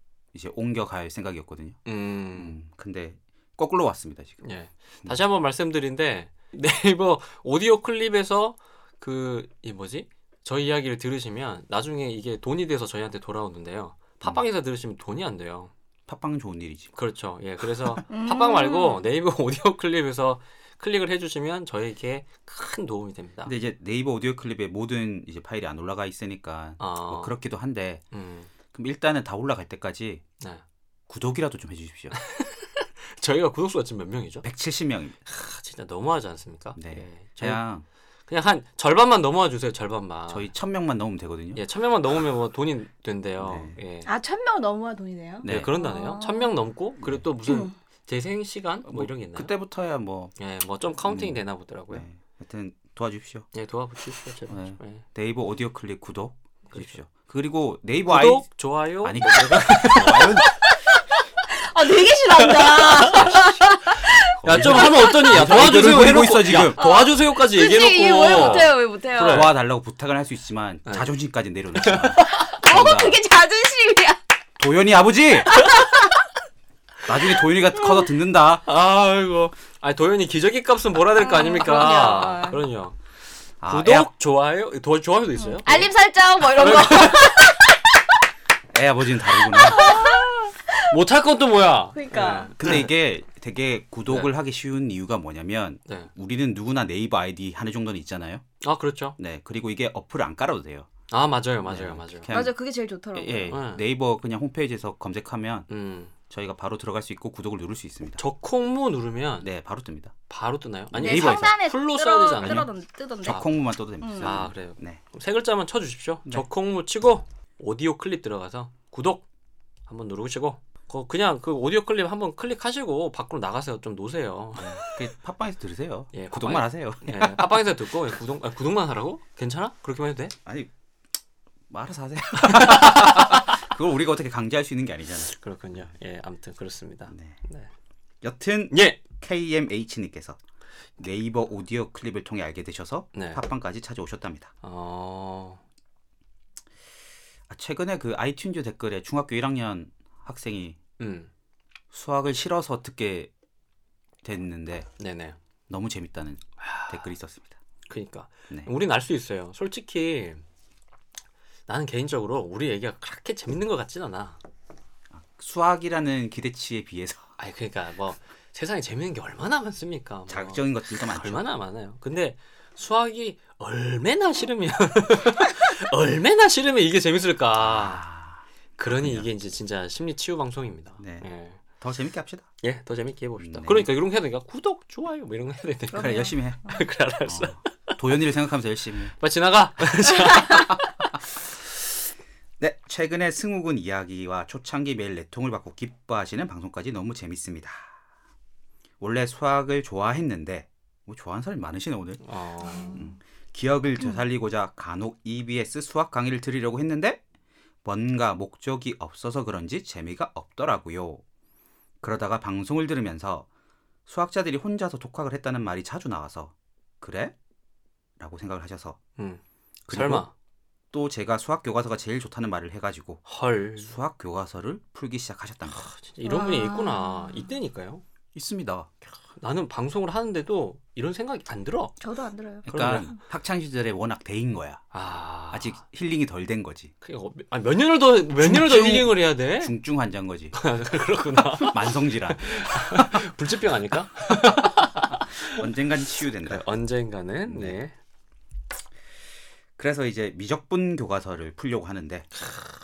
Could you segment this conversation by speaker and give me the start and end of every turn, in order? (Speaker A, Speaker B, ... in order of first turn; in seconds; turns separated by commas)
Speaker A: 0.3-1.8, Speaker B: 1.9-2.6, Speaker A: 2.4-4.4, Speaker B: 4.4-15.7, Speaker A: 16.1-17.0, Speaker B: 17.0-23.5, Speaker C: 18.1-19.0, Speaker A: 23.4-28.0, Speaker B: 26.8-27.3, Speaker B: 28.1-28.5, Speaker A: 28.7-30.2, Speaker A: 31.1-32.2, Speaker B: 32.1-34.5, Speaker A: 34.4-35.2, Speaker B: 35.3-37.6, Speaker A: 36.8-37.9, Speaker B: 38.3-40.5, Speaker A: 40.3-41.6, Speaker B: 41.5-44.1, Speaker A: 43.4-43.8, Speaker C: 44.1-46.5, Speaker A: 45.4-45.7, Speaker B: 45.5-49.5, Speaker C: 47.5-47.7, Speaker A: 48.9-50.4, Speaker B: 50.4-52.1, Speaker A: 51.0-51.4, Speaker A: 51.9-53.5, Speaker B: 53.5-55.0, Speaker A: 54.5-60.5, Speaker B: 56.7-57.0, Speaker B: 58.0-60.5, Speaker C: 61.5-65.3, Speaker B: 62.4-69.5, Speaker A: 64.4-66.8, Speaker C: 66.7-69.5, Speaker A: 68.3-73.2, Speaker B: 71.8-72.2, Speaker C: 72.2-74.2, Speaker A: 74.6-75.6, Speaker C: 75.5-76.1, Speaker A: 77.1-78.6, Speaker B: 78.7-83.0, Speaker C: 81.2-82.6, Speaker A: 83.6-84.1, Speaker B: 83.7-85.9, Speaker C: 85.4-87.8, Speaker B: 86.5-87.4, Speaker A: 88.7-90.0, Speaker C: 89.4-90.9, Speaker B: 90.9-92.9, Speaker C: 91.9-92.5, Speaker A: 92.6-98.4, Speaker B: 98.6-99.2, Speaker A: 99.2-100.9, Speaker B: 101.1-102.3, Speaker A: 101.7-102.6, Speaker C: 102.3-103.5, Speaker A: 103.1-105.7, Speaker B: 103.5-103.8, Speaker B: 105.7-106.1, Speaker A: 106.3-108.2, Speaker B: 108.2-109.5, Speaker A: 109.4-110.1, Speaker B: 110.3-112.7, Speaker A: 110.9-111.6, Speaker C: 110.9-113.5, Speaker A: 112.4-112.7, Speaker A: 113.2-115.0, Speaker C: 114.0-114.4, Speaker B: 114.2-119.2, Speaker B: 119.9-125.1, Speaker A: 124.6-127.7, Speaker B: 126.1-130.3, Speaker A: 131.7-135.8, Speaker B: 132.4-133.5, Speaker B: 135.3-137.7, Speaker A: 137.1-137.4, Speaker A: 138.2-140.4, Speaker B: 138.7-139.0, Speaker A: 141.0-144.5, Speaker B: 143.1-143.4, Speaker B: 144.6-145.6, Speaker A: 147.5-150.8, Speaker B: 151.0-151.3, Speaker A: 151.9-153.3, Speaker A: 154.2-154.9, Speaker B: 155.0-155.4, Speaker A: 155.7-157.6, Speaker B: 156.6-157.1, Speaker B: 157.9-160.4, Speaker B: 161.7-164.4, Speaker A: 165.1-167.3, Speaker B: 167.4-178.0, Speaker A: 170.3-171.4, Speaker A: 177.6-179.3, Speaker B: 178.8-181.6, Speaker A: 181.0-181.3, Speaker A: 181.8-182.5, Speaker B: 182.6-188.0, Speaker A: 183.4-183.9, Speaker C: 185.9-186.3, Speaker A: 185.9-186.6, Speaker A: 187.3-189.2, Speaker B: 189.2-190.8, Speaker A: 192.6-197.9, Speaker A: 199.0-202.2, Speaker B: 202.2-203.0, Speaker C: 202.6-203.1, Speaker A: 202.8-207.2, Speaker A: 207.8-211.2, Speaker A: 212.0-213.5, Speaker A: 214.1-217.3, Speaker A: 218.2-219.0, Speaker B: 219.2-220.3, Speaker A: 219.9-220.3, Speaker A: 220.9-223.2, Speaker B: 223.3-223.9, Speaker A: 223.8-225.9, Speaker B: 225.7-228.0, Speaker C: 226.2-227.5, Speaker A: 228.3-228.9, Speaker B: 229.3-232.0, Speaker C: 232.0-232.7, Speaker A: 232.7-234.8, Speaker B: 232.7-233.2, Speaker B: 234.9-235.8, Speaker A: 235.5-236.9, Speaker B: 237.0-239.8, Speaker A: 238.4-240.6, Speaker B: 240.5-245.6, Speaker A: 241.5-243.2, Speaker A: 245.4-246.6, Speaker B: 246.4-247.9, Speaker A: 247.5-247.8, Speaker A: 249.8-252.3